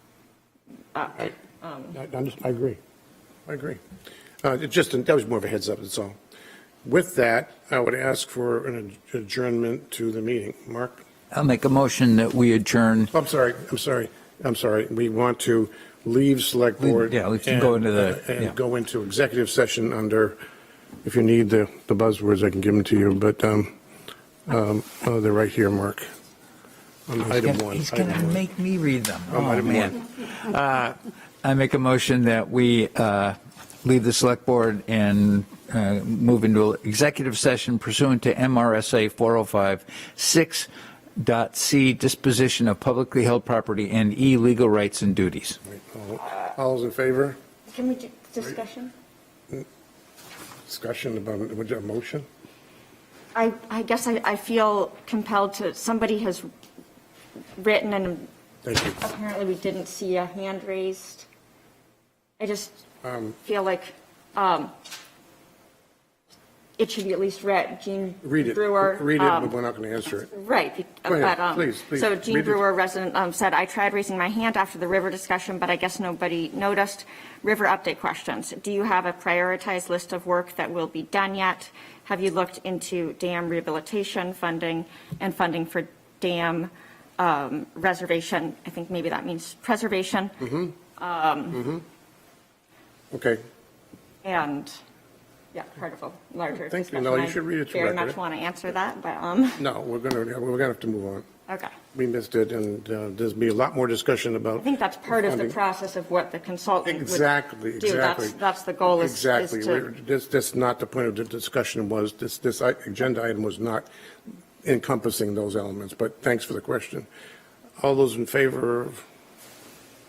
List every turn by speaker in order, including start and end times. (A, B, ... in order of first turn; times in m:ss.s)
0:00.9-0:02.0 A
0:01.9-0:02.8 B
0:03.4-0:03.8 B
0:04.4-0:06.2 B
0:06.8-0:11.0 B
0:11.3-0:13.1 C
0:13.1-0:20.4 B
0:16.8-0:18.5 C
0:21.0-0:23.7 B
0:24.5-0:26.1 B
0:27.1-0:28.4 B
0:27.2-0:45.6 C
0:29.3-0:30.0 B
0:45.6-0:47.4 B
0:47.7-0:48.9 A
0:50.6-0:52.2 B
0:53.3-0:56.5 A
0:57.6-0:58.3 A
0:58.6-0:59.0 B
0:59.0-1:01.2 A
1:02.4-1:02.8 A
1:03.0-1:03.4 B
1:03.4-1:04.8 A
1:06.8-1:09.5 A
1:08.2-1:10.3 B
1:10.3-1:31.7 A
1:11.1-1:12.6 B
1:33.1-1:33.4 B
1:34.2-1:34.8 A
1:35.5-1:39.6 A
1:36.7-1:38.2 B
1:39.6-1:41.3 B
1:41.5-1:41.7 A
1:41.9-1:45.6 B
1:44.6-1:47.3 A
1:46.8-1:53.9 B
1:47.8-1:49.8 A
1:54.6-1:57.1 B
1:57.8-1:59.0 B